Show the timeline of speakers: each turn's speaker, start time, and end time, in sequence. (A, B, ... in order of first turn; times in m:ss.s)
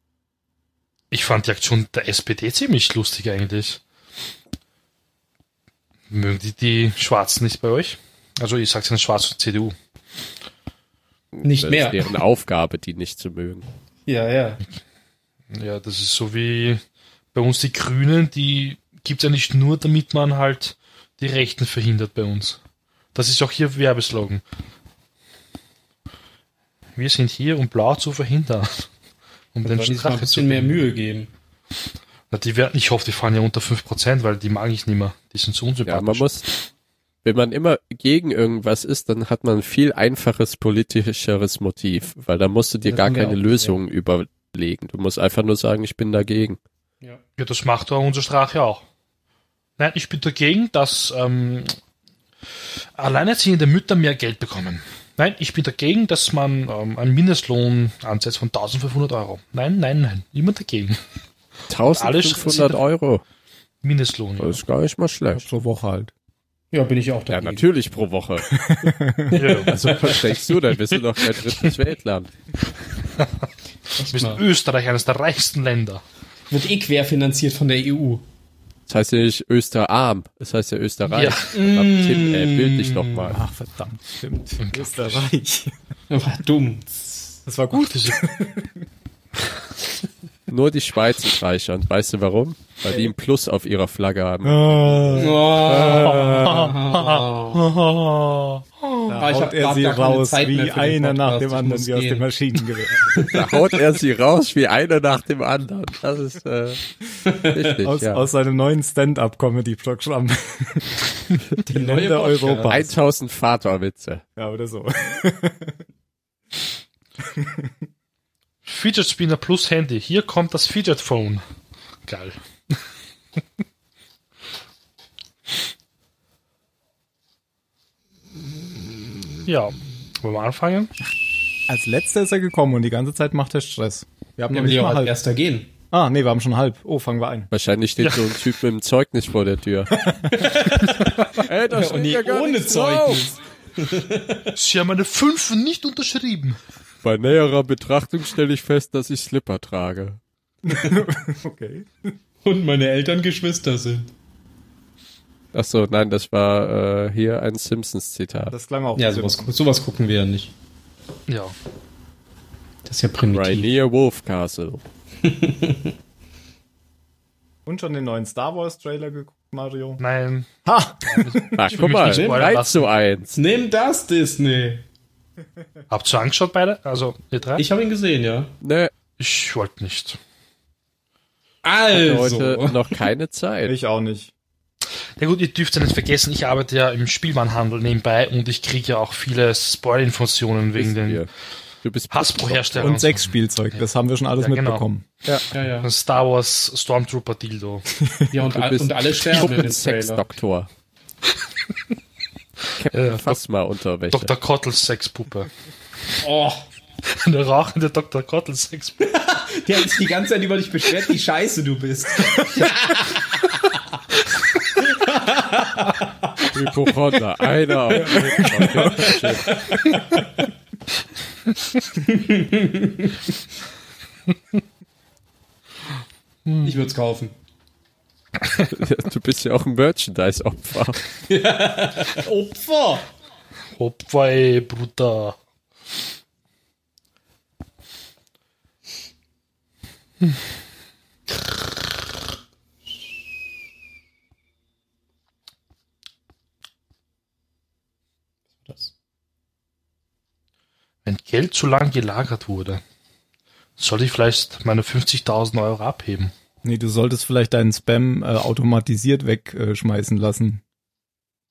0:01.1-0:03.8 A
0:06.1-0:09.7 A
0:11.3-0:13.6 B
0:11.4-0:12.0 C
0:14.0-0:14.6 C
0:15.5-0:16.8 A
0:17.3-0:22.6 A
0:23.1-0:24.4 A
0:27.0-0:28.9 A
0:29.5-0:30.9 A
0:29.6-0:31.3 C
0:32.3-0:36.3 A
0:35.8-0:36.4 B
0:37.2-0:46.6 B
0:42.8-0:43.8 C
0:47.4-0:48.8 A
0:49.8-0:51.8 A
0:53.0-1:01.0 A
1:01.7-1:03.2 B
1:01.9-1:02.8 A
1:03.8-1:04.6 A
1:04.4-1:05.4 B
1:05.3-1:06.1 D
1:06.7-1:07.6 C
1:07.3-1:08.4 B
1:08.5-1:09.4 D
1:09.3-1:10.5 C
1:09.3-1:10.1 A
1:09.7-1:12.3 B
1:14.0-1:14.4 C
1:14.0-1:16.0 A
1:16.5-1:18.2 C
1:18.9-1:23.4 B
1:21.1-1:21.6 A
1:21.5-1:23.3 C
1:23.2-1:25.7 D
1:24.6-1:25.2 A
1:26.1-1:27.4 C
1:27.4-1:28.7 D
1:27.8-1:28.2 A
1:30.5-1:36.7 B
1:34.4-1:35.4 D
1:35.1-1:37.6 C
1:35.8-1:39.0 A
1:39.1-1:43.3 D
1:39.2-1:42.3 C
1:43.1-1:43.7 C
1:43.2-1:46.8 B
1:47.2-1:47.6 C
1:47.4-1:48.2 B
1:47.8-1:50.9 D
1:51.6-1:52.9 D
1:51.7-1:52.8 C
1:52.7-1:54.2 B
1:54.4-1:55.8 D
1:57.2-1:57.7 D
1:58.6-2:01.4 A
2:02.0-2:02.8 A
2:09.4-2:10.9 A
2:11.7-2:15.1 D
2:14.5-2:15.7 C
2:15.9-2:17.5 D
2:17.5-2:20.1 B
2:18.0-2:18.3 A
2:20.3-2:24.5 C
2:21.4-2:23.3 B
2:24.5-2:26.6 A
2:27.0-2:30.2 B
2:30.6-2:32.1 D
2:32.4-2:34.1 C
2:35.5-2:38.5 B
2:38.5-2:39.5 D
2:39.0-2:40.5 C
2:41.3-2:41.5 A
2:42.8-2:43.7 C
2:43.3-2:44.8 B
2:45.2-2:45.9 C
2:47.6-2:50.0 D
2:50.0-2:50.5 A
2:50.6-2:51.6 D
2:51.0-2:52.9 A
2:51.6-2:53.4 B
2:52.0-2:52.5 C
2:53.3-2:54.8 C
2:55.9-2:57.6 A
2:57.6-2:58.5 C
2:58.6-2:58.9 B
2:59.2-3:00.2 A
3:01.6-3:03.0 C
3:01.9-3:03.7 B
3:03.6-3:04.3 D
3:05.2-3:11.2 A
3:10.8-3:11.3 B
3:11.8-3:13.0 B
3:12.1-3:13.2 A
3:12.8-3:15.4 D
3:14.4-3:14.8 A
3:15.5-3:15.9 C
3:15.8-3:17.8 A
3:17.9-3:18.3 D
3:18.3-3:20.2 C
3:18.4-3:20.7 B
3:22.8-3:24.3 B
3:22.9-3:23.4 A
3:24.1-3:25.5 A
3:26.2-3:26.6 C
3:27.0-3:29.1 A
3:29.0-3:33.8 C
3:34.8-3:36.4 C
3:36.5-3:39.6 B
3:38.0-3:40.2 C
3:38.4-3:38.6 A
3:42.0-3:43.2 C
3:46.4-3:46.7 A
3:46.6-3:47.3 C
3:48.7-3:51.0 B
3:51.3-3:53.1 C
3:53.8-3:55.4 A
4:08.6-4:08.9 C
4:11.0-4:12.8 A
4:13.8-4:16.3 A
4:16.6-4:20.6 D